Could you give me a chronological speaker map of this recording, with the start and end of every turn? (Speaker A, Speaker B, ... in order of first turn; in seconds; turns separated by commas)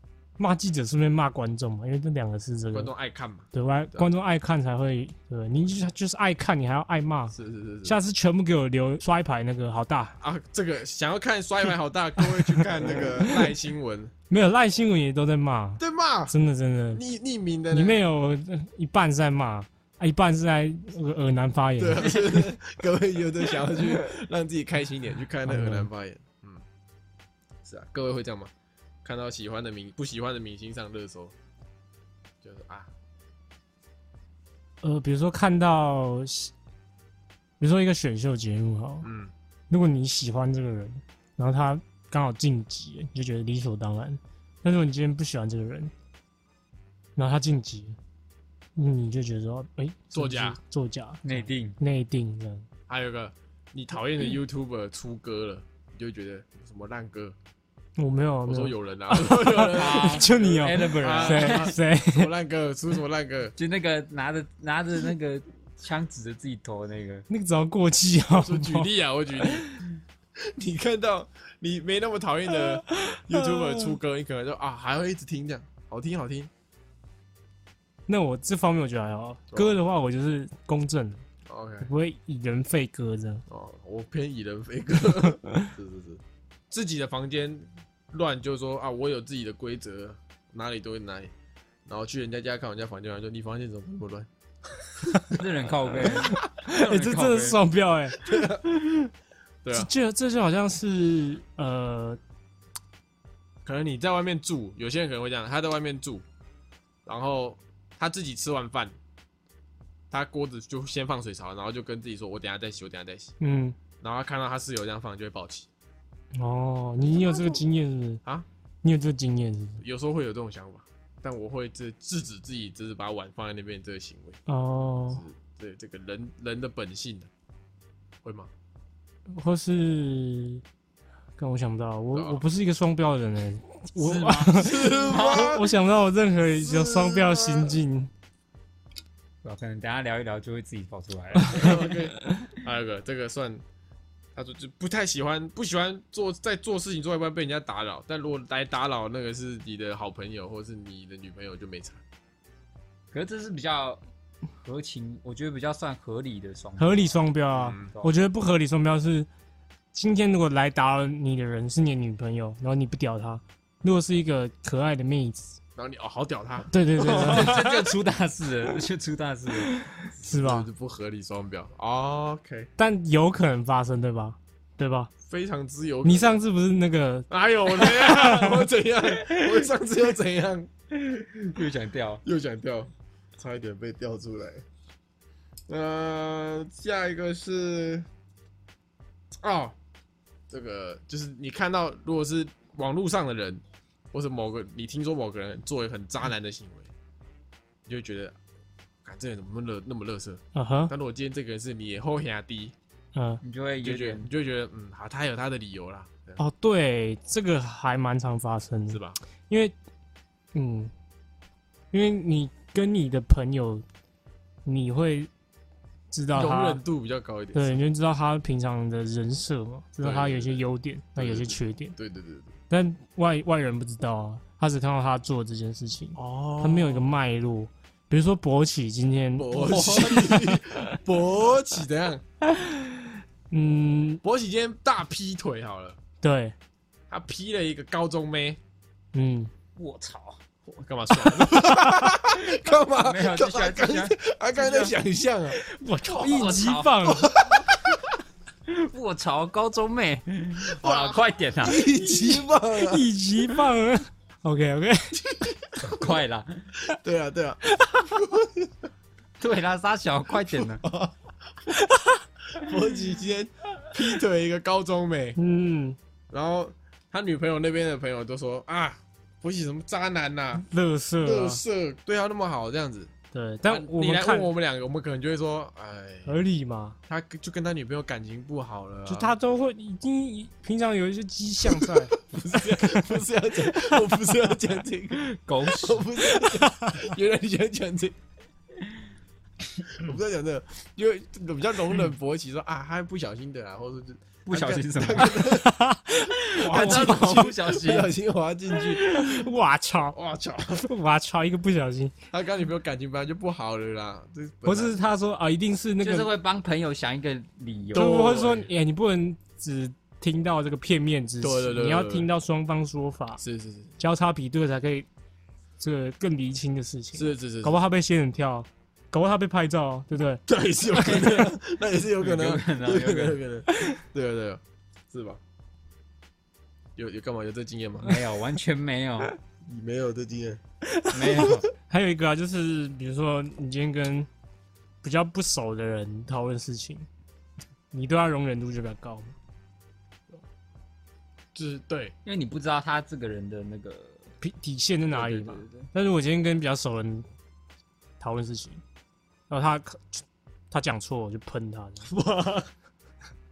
Speaker A: 0.4-2.9, Speaker B: 2.7-4.1, Speaker A: 3.5-10.2, Speaker B: 7.3-8.0, Speaker B: 10.2-14.1, Speaker A: 12.2-13.5, Speaker A: 14.3-17.0, Speaker B: 15.8-16.3, Speaker B: 16.9-18.0, Speaker A: 17.7-22.5, Speaker B: 21.8-26.6, Speaker A: 25.4-25.9, Speaker B: 27.6-28.5, Speaker B: 29.0-31.3, Speaker B: 32.4-32.9, Speaker A: 34.8-36.5, Speaker A: 37.6-39.1, Speaker B: 39.0-39.3, Speaker A: 39.7-45.9, Speaker A: 47.1-48.0, Speaker A: 48.8-52.7, Speaker B: 50.1-50.6, Speaker C: 51.2-51.8, Speaker B: 52.9-57.3, Speaker A: 58.0-62.3, Speaker B: 58.5-63.5, Speaker C: 59.7-61.7, Speaker C: 63.6-67.3, Speaker A: 67.3-68.9, Speaker B: 68.3-69.8, Speaker B: 70.4-76.5, Speaker A: 72.8-73.9, Speaker A: 78.1-81.2, Speaker B: 81.5-81.9, Speaker A: 81.8-83.4, Speaker B: 83.5-91.3, Speaker B: 91.8-94.3, Speaker C: 95.3-97.6, Speaker A: 96.1-98.3, Speaker B: 98.2-98.6, Speaker B: 99.6-99.9, Speaker A: 99.7-102.2, Speaker B: 103.6-106.2, Speaker B: 107.0-109.0, Speaker B: 110.1-113.3, Speaker A: 113.4-113.8, Speaker B: 114.0-115.7, Speaker A: 116.3-118.2, Speaker B: 117.2-117.6, Speaker A: 118.8-119.8, Speaker B: 119.8-124.4, Speaker A: 124.5-125.2, Speaker B: 125.1-127.3, Speaker B: 128.2-128.5, Speaker A: 129.3-130.6, Speaker A: 131.4-138.1, Speaker B: 132.1-132.4, Speaker C: 134.0-135.6, Speaker B: 134.5-135.7, Speaker B: 136.4-137.8, Speaker C: 139.4-141.9, Speaker A: 141.4-142.5, Speaker B: 141.5-143.6, Speaker B: 144.3-152.0, Speaker C: 153.1-154.0, Speaker C: 154.6-157.2, Speaker A: 156.8-159.3, Speaker B: 157.5-157.9, Speaker C: 157.8-158.1, Speaker A: 159.9-165.6, Speaker B: 165.8-167.9, Speaker A: 166.7-167.6, Speaker C: 167.0-169.8, Speaker A: 169.7-170.7, Speaker B: 170.2-172.7, Speaker A: 172.8-175.1, Speaker B: 175.2-176.4, Speaker A: 176.0-178.6, Speaker B: 177.3-180.7, Speaker C: 180.9-182.2, Speaker B: 182.2-184.6, Speaker B: 185.7-188.1, Speaker B: 189.4-189.8, Speaker B: 190.5-196.9, Speaker B: 197.8-198.4, Speaker B: 199.0-202.7, Speaker A: 200.5-200.9, Speaker A: 203.1-203.4, Speaker C: 203.4-204.3, Speaker B: 203.8-206.4, Speaker A: 206.4-209.7, Speaker B: 208.9-209.2, Speaker A: 210.5-210.9, Speaker A: 211.9-213.8, Speaker A: 214.6-215.3, Speaker A: 216.1-216.8, Speaker B: 216.3-217.8, Speaker A: 217.5-221.9, Speaker B: 220.0-220.6, Speaker B: 221.2-222.6, Speaker A: 222.7-230.9, Speaker B: 226.1-227.2, Speaker B: 229.4-232.2, Speaker C: 229.8-230.2, Speaker A: 232.5-234.2, Speaker B: 234.2-236.0, Speaker A: 236.2-236.5, Speaker B: 237.1-238.6, Speaker A: 239.1-239.5, Speaker C: 239.8-240.4, Speaker B: 240.7-245.6, Speaker C: 242.4-244.9, Speaker A: 245.5-247.3, Speaker C: 246.1-247.4, Speaker B: 246.1-248.1, Speaker C: 248.7-251.8, Speaker B: 250.6-253.1, Speaker A: 251.9-255.2, Speaker B: 255.2-256.1, Speaker C: 255.8-256.7, Speaker B: 256.9-258.7, Speaker A: 257.7-258.1, Speaker C: 259.4-260.9, Speaker B: 260.5-261.1, Speaker A: 261.7-262.2, Speaker B: 262.5-265.4, Speaker A: 265.4-266.0, Speaker B: 266.3-270.6, Speaker A: 270.6-271.6, Speaker B: 271.2-273.1, Speaker A: 273.3-274.5, Speaker B: 273.6-276.4, Speaker A: 276.2-277.0, Speaker B: 277.1-279.3, Speaker A: 279.1-283.2, Speaker B: 281.6-288.1, Speaker C: 285.1-286.1, Speaker A: 286.4-287.0, Speaker B: 289.9-295.8, Speaker C: 294.4-295.5, Speaker A: 295.4-297.4, Speaker C: 296.5-298.1, Speaker B: 296.5-299.4, Speaker A: 299.0-300.1, Speaker B: 300.1-300.9, Speaker A: 300.8-302.1, Speaker B: 302.3-304.9, Speaker A: 304.6-306.3, Speaker C: 306.0-308.4, Speaker B: 307.9-308.7, Speaker A: 307.9-313.4, Speaker B: 311.4-312.3, Speaker B: 313.4-313.9, Speaker A: 314.0-315.1, Speaker A: 315.8-321.4, Speaker B: 317.1-317.8, Speaker B: 320.5-325.4, Speaker C: 322.2-323.4, Speaker B: 326.9-328.2, Speaker C: 328.0-329.3, Speaker B: 329.6-330.6, Speaker A: 330.8-334.3, Speaker C: 331.1-331.7, Speaker A: 335.0-337.1, Speaker A: 337.9-339.4, Speaker B: 341.5-342.1, Speaker C: 342.2-344.3, Speaker A: 344.4-347.3, Speaker C: 345.1-345.9, Speaker A: 348.2-348.8, Speaker A: 349.5-352.1, Speaker B: 352.1-352.7